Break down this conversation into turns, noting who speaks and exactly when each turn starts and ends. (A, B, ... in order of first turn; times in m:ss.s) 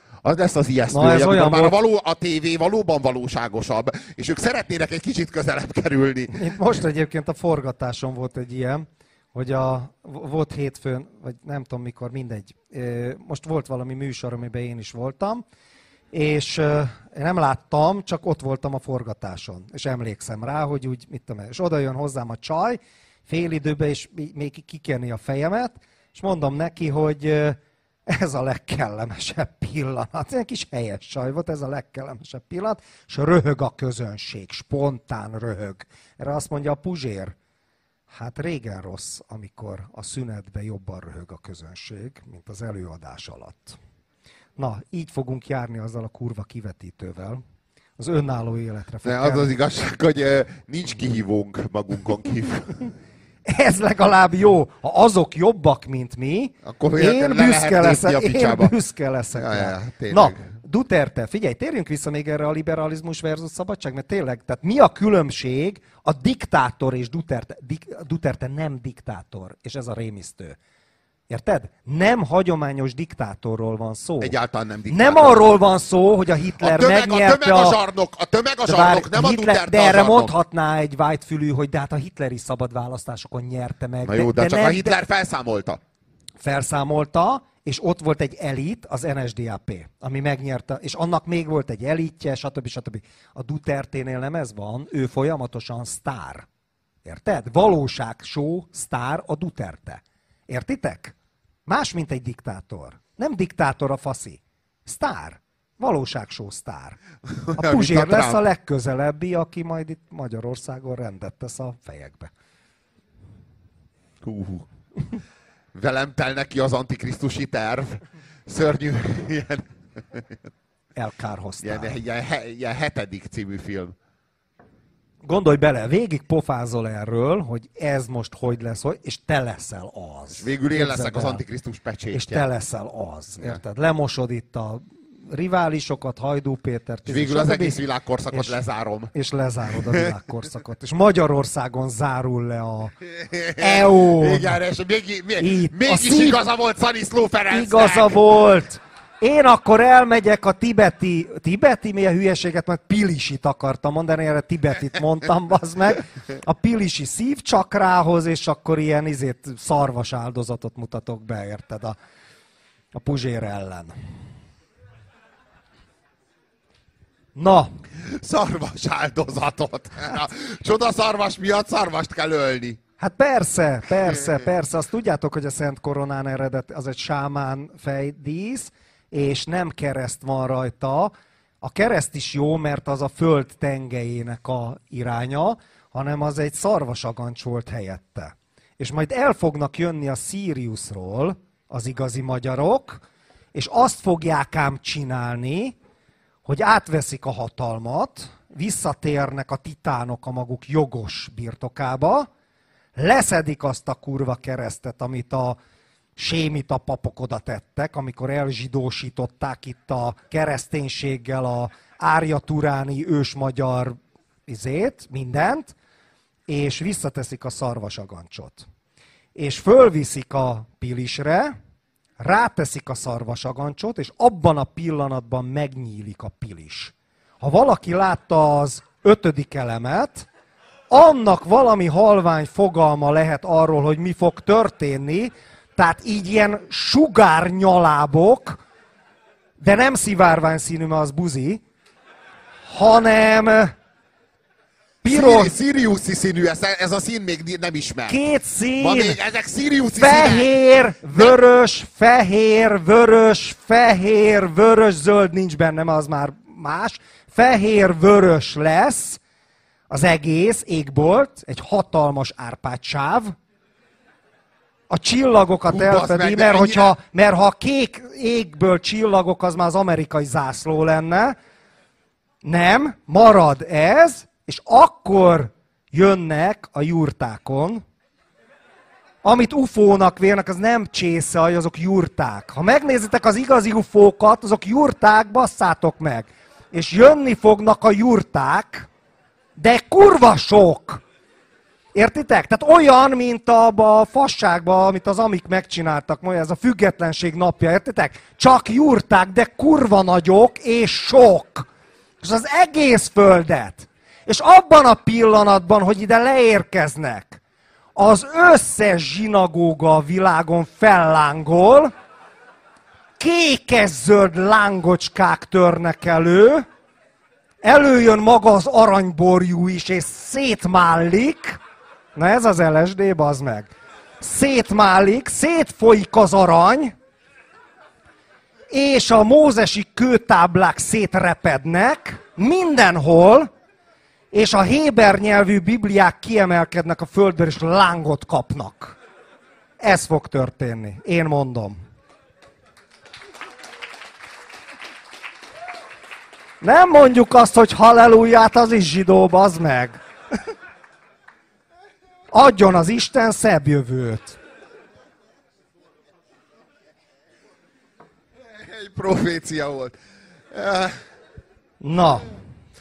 0:00.2-0:06.6 A
0:00.9-0:01.7 B
0:06.3-0:15.4 B
0:16.1-0:37.3 B
0:38.1-0:43.8 B
0:44.6-0:47.4 B
0:48.0-0:49.5 B
0:49.0-0:52.9 A
0:53.5-1:10.6 B
0:56.6-0:58.7 A
0:59.3-1:00.4 A
1:11.3-1:14.3 B
1:14.2-1:15.5 A
1:14.9-1:17.8 B
1:16.6-1:20.3 A
1:18.6-1:25.0 B
1:24.0-1:25.8 A
1:26.4-1:36.4 B
1:37.0-1:41.1 B
1:41.6-1:47.0 B
1:47.3-1:48.4 A
1:47.6-1:52.3 B
1:54.2-1:54.7 A
1:55.7-2:00.3 A
2:00.9-2:02.0 B
2:01.6-2:03.9 A
2:05.2-2:11.4 B
2:10.3-2:12.4 A
2:12.1-2:18.6 B
2:17.1-2:19.1 A
2:19.1-2:23.0 B
2:19.8-2:20.1 A
2:23.0-2:28.2 A
2:23.6-2:24.6 B
2:25.4-2:26.4 B
2:27.5-2:42.0 B
2:42.9-2:43.9 B
2:47.3-2:47.7 B
2:48.0-2:52.8 A
2:53.0-3:13.0 B
2:54.1-2:54.4 A
3:13.5-3:15.8 B
3:16.4-3:22.3 B
3:23.0-3:25.6 B
3:26.2-3:35.7 B
3:36.5-3:38.6 B
3:39.3-3:41.5 B
3:42.2-3:50.3 B
3:50.9-3:58.6 B
3:59.6-4:01.6 B
4:02.7-4:03.7 B
4:05.0-4:05.5 B
4:05.0-4:08.2 A
4:08.1-4:09.2 B
4:08.8-4:10.5 A
4:09.9-4:19.2 B
4:19.9-4:23.4 B
4:24.9-4:31.4 B
4:25.7-4:27.0 A
4:32.4-4:37.8 B
4:39.2-4:48.9 B
4:49.6-4:51.0 B
4:51.9-5:01.7 B
5:02.2-5:07.4 B
5:08.0-5:11.9 B
5:13.2-5:16.6 B
5:17.6-5:21.6 B
5:22.1-5:26.9 B
5:28.7-5:33.5 B
5:34.3-5:39.0 B
5:39.8-5:41.8 B
5:46.6-5:50.0 B
5:52.3-5:54.4 B
5:58.4-6:00.0 A
6:00.5-6:01.0 A
6:01.8-6:02.3 B